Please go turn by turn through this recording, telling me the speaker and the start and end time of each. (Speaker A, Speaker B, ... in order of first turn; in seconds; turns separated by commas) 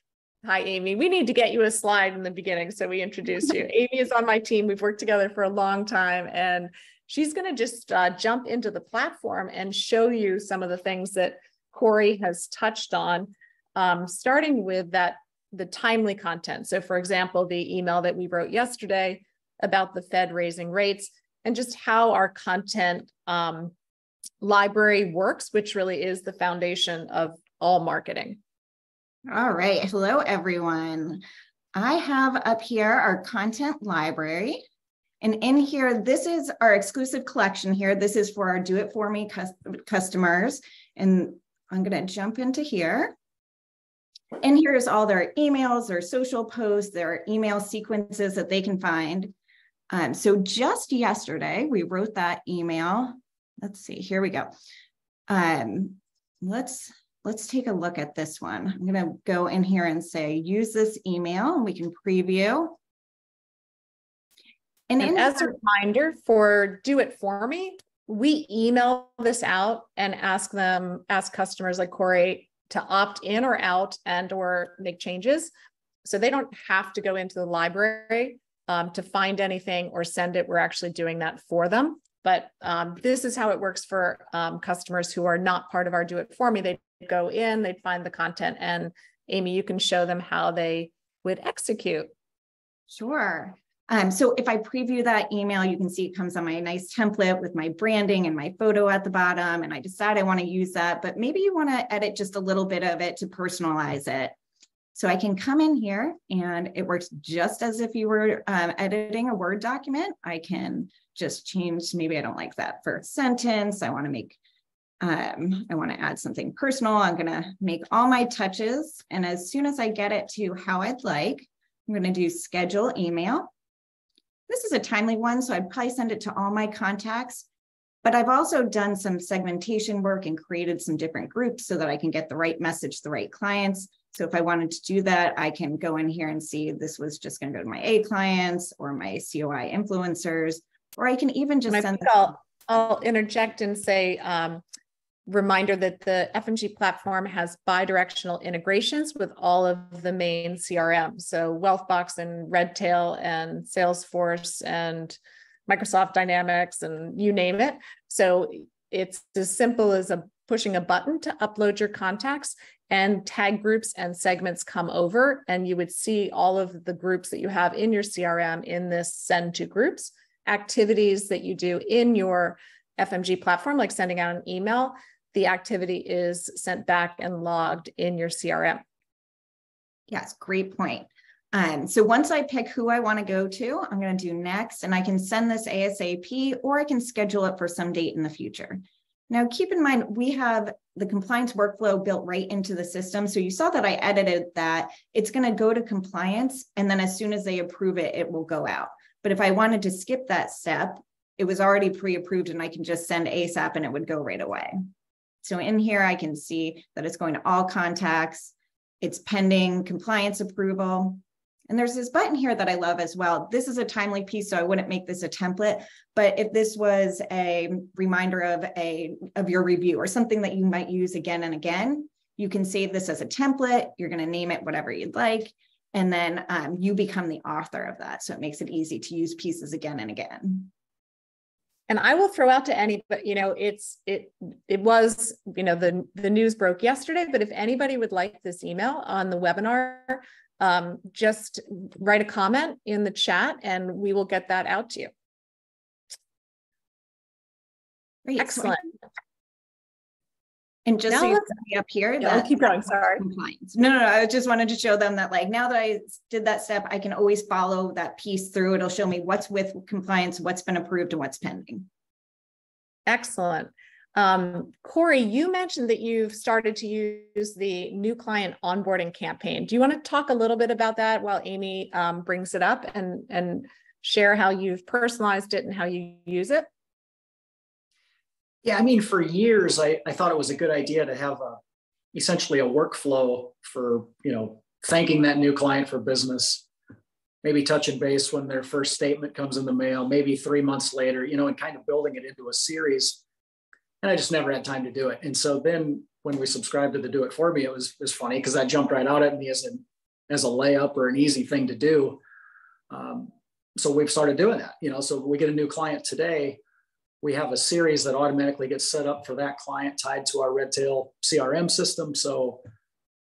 Speaker A: 0.4-23.7, Speaker A: 24.4-28.4, Speaker B: 29.3-31.2, Speaker B: 31.7-34.6, Speaker B: 35.2-43.1, Speaker B: 44.4-49.3, Speaker B: 49.9-54.5, Speaker B: 55.3-62.8, Speaker B: 64.9-65.6, Speaker A: 65.0-75.5, Speaker A: 76.0-92.1, Speaker B: 92.9-104.3, Speaker B: 104.9-114.4, Speaker B: 115.0-123.5, Speaker B: 124.5-127.4, Speaker B: 128.0-142.3, Speaker A: 141.7-144.6, Speaker A: 145.3-178.8, Speaker B: 180.1-204.8, Speaker B: 205.4-230.7, Speaker A: 231.9-245.1, Speaker B: 248.2-248.8, Speaker A: 248.4-248.9, Speaker B: 250.8-261.9, Speaker A: 251.1-251.6, Speaker A: 252.2-253.2, Speaker A: 263.1-276.7, Speaker C: 278.6-281.6, Speaker C: 282.1-286.6, Speaker C: 287.4-293.2, Speaker C: 294.0-302.2, Speaker C: 302.9-306.6, Speaker C: 307.2-312.6